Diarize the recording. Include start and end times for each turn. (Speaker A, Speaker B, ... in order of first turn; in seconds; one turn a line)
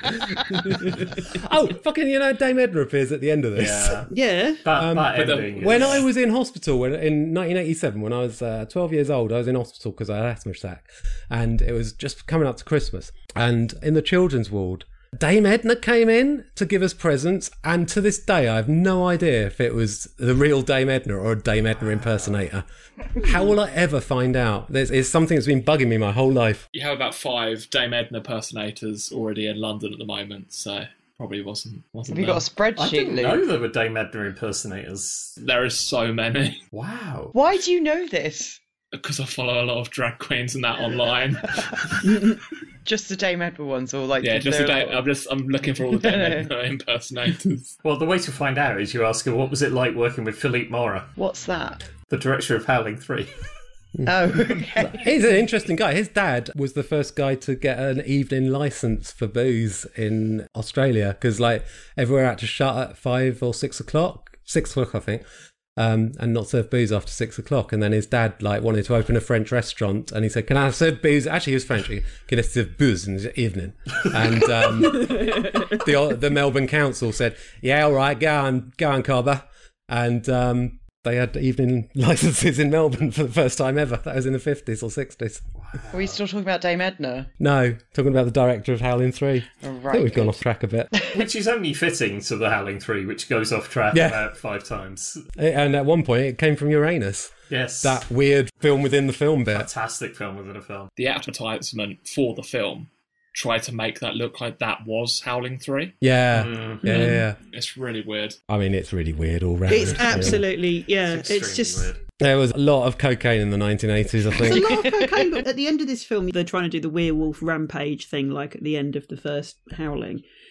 Speaker A: 0.3-4.1
Speaker B: 3.5-4.1
Speaker C: 4.1-4.6
Speaker B: 4.6-6.0
Speaker A: 4.7-26.6
Speaker D: 5.1-6.0
Speaker D: 26.7-32.5
Speaker E: 32.1-33.4
Speaker B: 32.8-35.4
Speaker D: 35.4-36.6
Speaker B: 36.7-37.3
Speaker E: 37.3-38.6
Speaker D: 38.9-41.5
Speaker E: 42.8-45.0
Speaker D: 44.2-47.7
Speaker E: 45.8-46.5
Speaker B: 47.8-51.1
Speaker E: 51.2-51.8
Speaker B: 52.1-53.3
Speaker A: 54.0-65.2
Speaker E: 54.0-55.0
Speaker A: 65.8-85.4
Speaker C: 75.1-75.5
Speaker B: 85.6-86.2
Speaker E: 85.9-87.3
Speaker A: 87.4-90.9
Speaker E: 89.6-90.3
Speaker B: 91.1-95.2
Speaker A: 93.9-94.2
Speaker A: 95.4-99.7
Speaker B: 97.5-98.0
Speaker B: 99.5-100.9
Speaker D: 101.0-106.0
Speaker A: 106.0-107.4
Speaker B: 106.3-106.8
Speaker C: 106.8-107.2
Speaker D: 107.4-108.4
Speaker A: 108.5-110.4
Speaker C: 109.7-111.9
Speaker B: 110.0-110.5
Speaker B: 111.0-112.0
Speaker A: 112.2-114.8
Speaker C: 114.4-120.2
Speaker E: 114.4-115.2